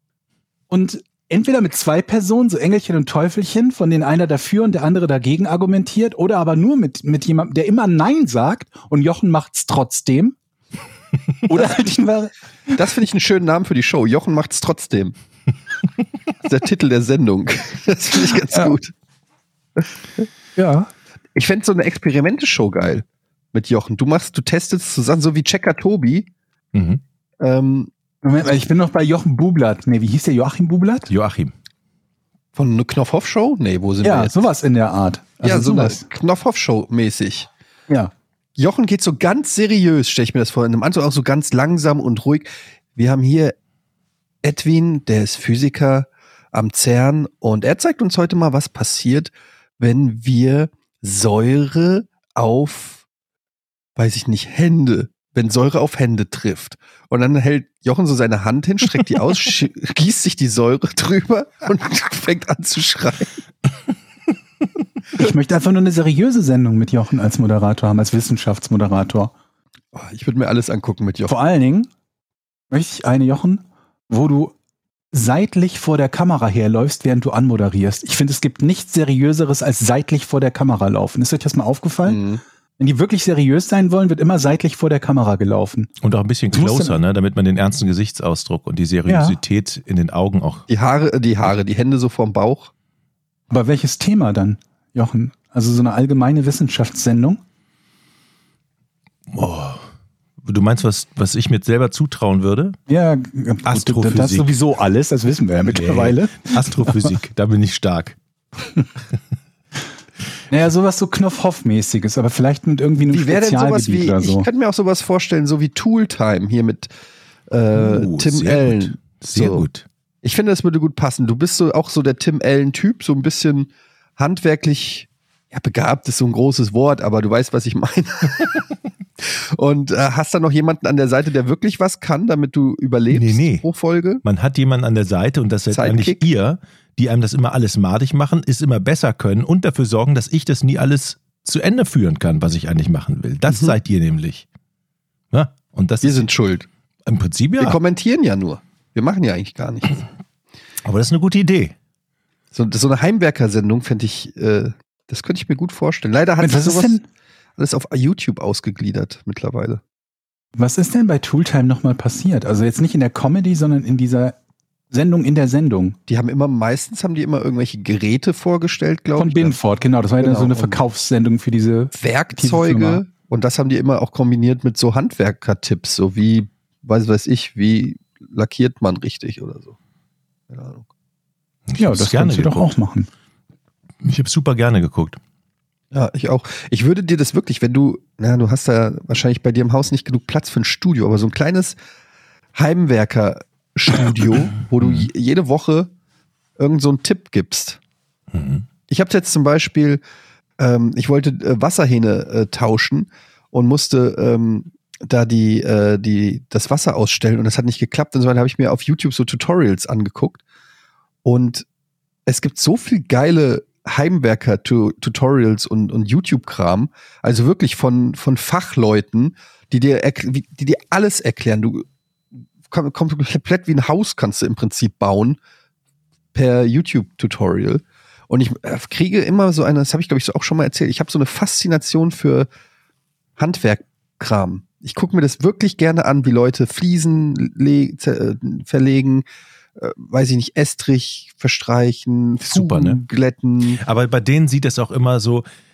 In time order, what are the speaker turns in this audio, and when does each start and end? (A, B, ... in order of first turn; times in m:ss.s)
0:00.7-0:10.4 A
0:11.5-0:12.7 A
0:11.5-0:11.8 B
0:12.7-0:15.1 B
0:16.4-0:18.9 B
0:20.6-0:20.9 A
0:21.4-0:26.3 B
0:26.7-0:27.0 C
0:27.4-0:27.9 B
0:28.2-0:31.1 A
0:31.1-0:31.5 C
0:32.5-0:34.4 B
0:34.0-0:36.0 A
0:35.4-0:37.5 B
0:38.6-0:43.5 B
0:44.4-0:53.0 B
0:54.0-1:03.3 B
1:05.1-1:09.3 A
1:09.9-1:11.3 B
1:11.3-1:11.9 A
1:12.7-1:14.5 A
1:15.1-1:22.2 A
1:22.0-1:22.4 B
1:22.8-1:25.9 A
1:26.0-1:30.6 C
1:26.5-1:27.0 A
1:29.1-1:29.4 A
1:30.7-1:32.7 B
1:33.5-1:37.4 A
1:39.3-1:39.8 C
1:40.4-1:42.8 C
1:42.9-1:47.1 A
1:43.6-1:44.5 C
1:45.7-1:48.2 C
1:50.5-1:54.5 A
1:53.0-1:56.9 B
1:57.5-1:59.6 B
1:57.7-1:59.8 C
2:00.2-2:08.6 B
2:09.2-2:14.2 B
2:13.1-2:13.6 C
2:14.2-2:24.4 C
2:15.7-2:16.3 B
2:23.5-2:23.7 B
2:25.3-2:26.3 C
2:26.0-2:26.7 B
2:27.0-2:27.8 C
2:27.6-2:30.0 B
2:30.8-2:31.7 C
2:32.5-2:37.0 B
2:36.4-2:37.0 A
2:37.6-2:39.8 B
2:40.6-2:44.4 A
2:44.9-2:46.0 A
2:46.1-2:49.5 B
2:49.2-2:53.0 A
2:50.2-2:50.8 B
2:51.9-2:59.8 B
3:00.5-3:00.8 B
3:01.7-3:02.8 C
3:01.8-3:03.1 A
3:04.0-3:05.2 C
3:05.9-3:11.8 B
3:12.5-3:15.9 B
3:16.6-3:17.8 B
3:18.3-3:18.6 C
3:18.9-3:20.0 B
3:20.6-3:30.4 B
3:31.2-3:31.6 B
3:32.2-3:41.8 B
3:42.7-3:45.4 B
3:46.3-3:52.5 B
3:53.4-3:59.2 B
3:59.8-4:03.8 B
4:02.4-4:03.0 C
4:03.8-4:05.4 C